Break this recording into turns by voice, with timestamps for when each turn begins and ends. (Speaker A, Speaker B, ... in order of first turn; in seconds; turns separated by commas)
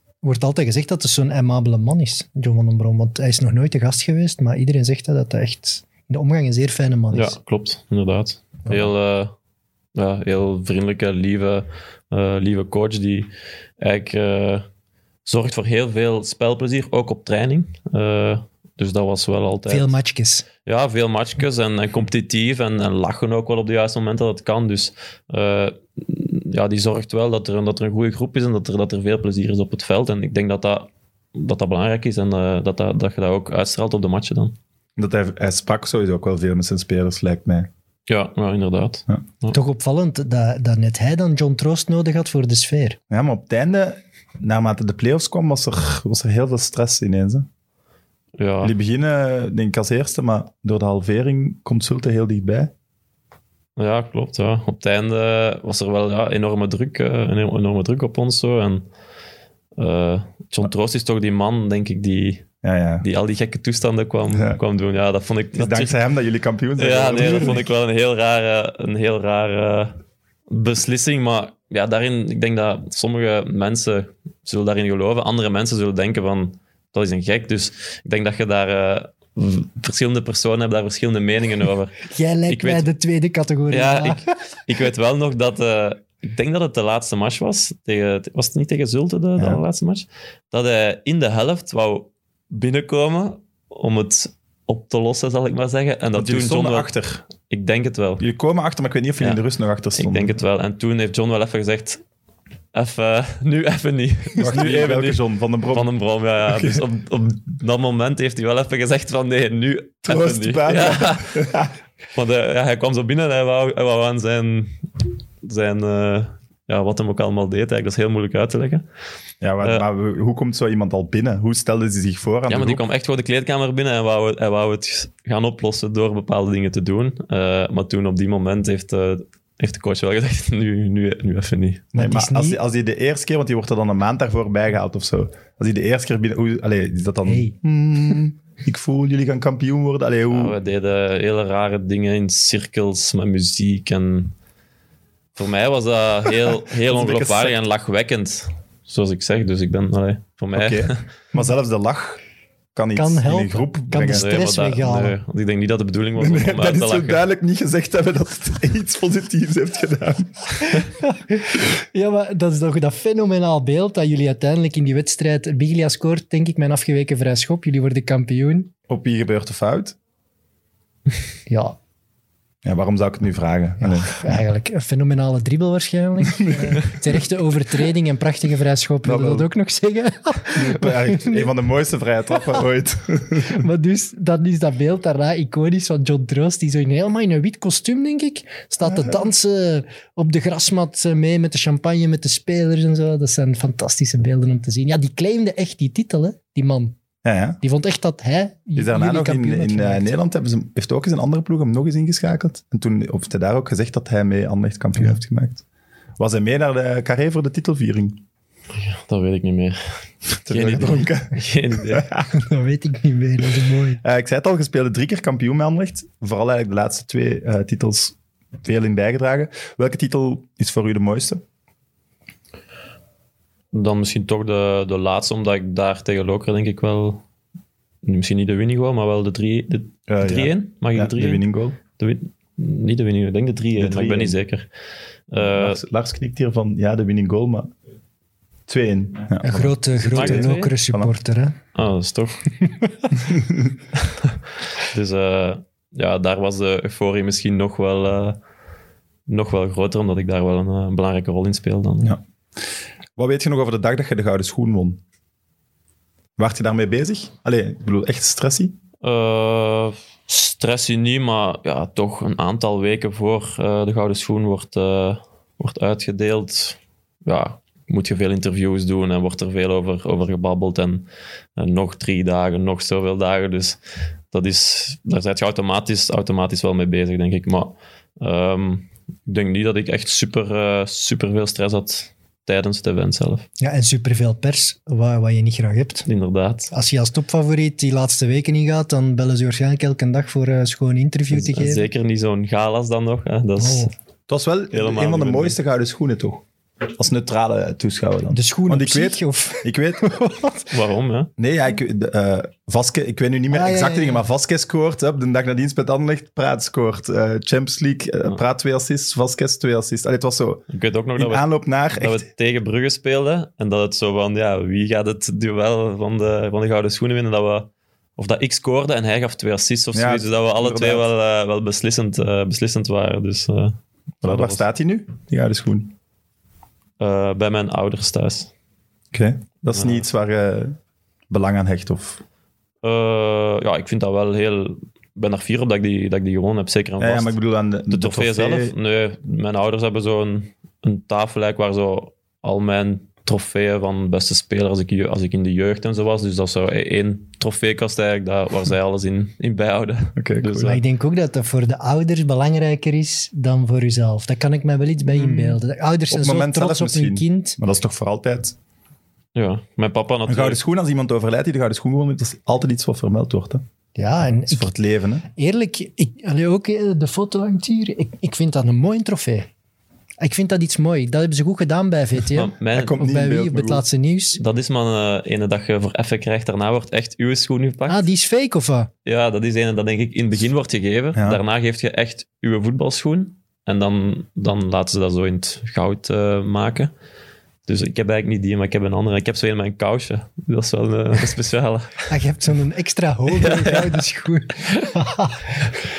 Speaker A: 0.2-7.3, Speaker B: 7.1-9.3, Speaker B: 9.9-14.7, Speaker B: 15.3-19.9, Speaker A: 19.7-20.5, Speaker B: 20.6-34.6, Speaker C: 35.0-37.7, Speaker B: 38.1-39.6, Speaker A: 39.5-43.0, Speaker C: 43.1-47.5, Speaker B: 48.4-48.7, Speaker C: 48.6-52.7, Speaker B: 53.8-58.9, Speaker B: 59.8-62.5, Speaker C: 62.6-63.0, Speaker B: 63.0-66.0, Speaker C: 65.6-67.7, Speaker B: 66.8-69.9, Speaker B: 70.5-82.9, Speaker A: 82.1-84.2, Speaker B: 83.7-98.2, Speaker C: 96.1-97.2, Speaker C: 98.2-100.3, Speaker B: 100.0-102.0, Speaker B: 102.7-111.5, Speaker C: 104.4-105.9, Speaker C: 106.5-106.8, Speaker C: 110.0-111.7, Speaker B: 112.2-114.8, Speaker B: 115.4-118.8, Speaker C: 119.4-122.8, Speaker B: 122.5-131.9, Speaker C: 131.9-140.6, Speaker A: 131.9-132.6, Speaker A: 137.3-137.6, Speaker B: 140.3-144.3, Speaker B: 145.4-151.0, Speaker C: 146.9-147.6, Speaker C: 150.5-152.2, Speaker C: 152.7-154.3, Speaker A: 153.0-155.2, Speaker B: 154.0-157.2, Speaker C: 156.2-160.8, Speaker A: 161.0-168.7, Speaker C: 168.9-170.0, Speaker A: 171.5-171.8, Speaker C: 172.6-174.4, Speaker A: 173.8-181.5, Speaker C: 176.4-176.9, Speaker C: 179.0-179.5, Speaker C: 180.5-183.6, Speaker A: 182.3-182.6, Speaker A: 183.4-197.0, Speaker C: 197.2-197.6, Speaker A: 197.6-200.1, Speaker C: 198.8-205.6, Speaker C: 206.2-208.2, Speaker B: 208.8-212.1, Speaker C: 210.5-212.3, Speaker A: 212.3-214.0, Speaker C: 214.0-221.4, Speaker B: 223.7-227.2, Speaker B: 228.0-234.7, Speaker C: 230.1-231.8, Speaker C: 233.8-234.4, Speaker B: 235.3-235.8, Speaker C: 235.4-237.7, Speaker C: 238.7-241.1, Speaker A: 239.4-241.6, Speaker B: 240.1-240.8, Speaker B: 241.8-242.6, Speaker C: 243.2-243.7, Speaker B: 244.8-248.4, Speaker B: 249.3-252.2, Speaker C: 253.2-255.0, Speaker C: 256.4-258.8, Speaker B: 259.0-271.1, Speaker B: 271.6-273.8, Speaker B: 274.3-283.4, Speaker A: 283.6-286.1, Speaker B: 286.1-286.7, Speaker A: 286.7-291.9, Speaker B: 291.3-293.9, Speaker A: 293.6-293.9, Speaker C: 294.3-300.1, Speaker B: 294.7-295.6, Speaker A: 298.3-300.7, Speaker B: 300.7-301.3, Speaker C: 301.4-310.6, Speaker A: 303.5-304.3, Speaker B: 310.7-324.6, Speaker C: 311.2-312.3, Speaker C: 319.9-321.1, Speaker C: 324.2-325.9, Speaker B: 327.0-328.5, Speaker C: 329.1-330.8, Speaker B: 329.7-330.1, Speaker C: 331.3-332.2, Speaker B: 332.8-337.4, Speaker C: 337.0-338.7, Speaker B: 337.9-350.8, Speaker C: 350.2-350.7, Speaker A: 350.6-357.6, Speaker C: 356.1-358.6, Speaker B: 359.4-360.6, Speaker C: 360.3-363.6, Speaker A: 364.0-364.7, Speaker C: 364.5-365.3, Speaker A: 365.3-369.5, Speaker A: 370.2-374.4, Speaker B: 372.3-373.0, Speaker C: 372.7-373.9, Speaker B: 374.4-378.1, Speaker A: 377.9-378.9, Speaker B: 379.1-386.9, Speaker C: 381.1-381.4, Speaker B: 387.7-392.1, Speaker A: 392.1-395.7, Speaker B: 393.3-394.0